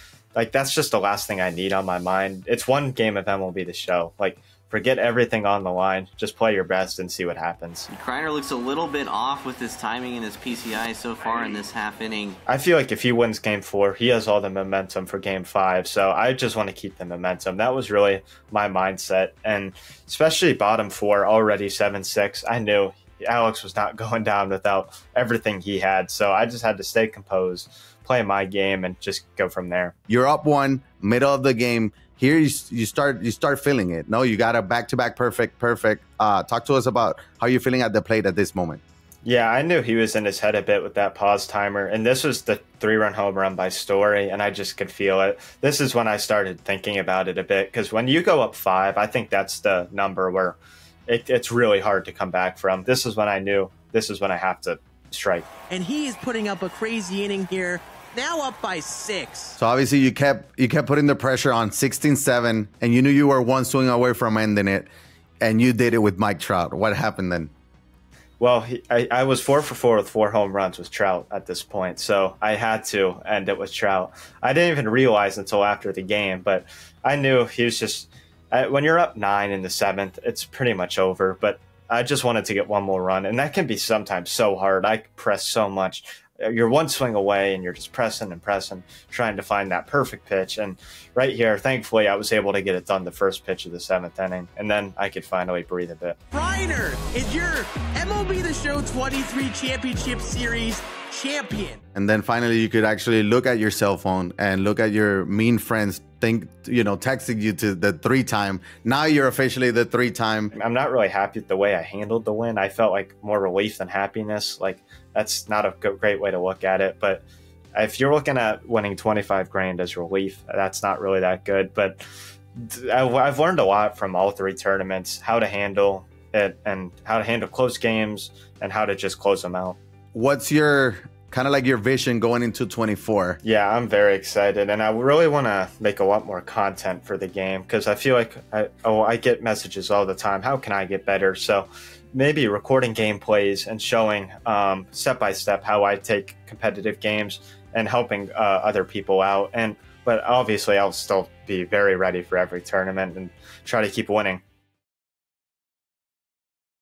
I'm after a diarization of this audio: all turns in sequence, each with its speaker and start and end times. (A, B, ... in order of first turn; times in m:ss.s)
0:00.4-0:07.9 A
0:07.9-0:12.4 B
0:12.5-0:29.9 A
0:30.1-0:38.8 C
0:39.2-0:50.6 A
0:51.1-0:55.4 A
0:55.7-0:59.6 D
0:59.6-1:04.9 C
1:05.4-1:07.5 C
1:08.4-1:36.2 A
1:36.3-1:41.8 D
1:42.0-1:50.5 C
1:50.5-2:02.0 A
2:02.6-2:09.8 A
2:10.1-2:13.4 C
2:13.4-2:34.4 A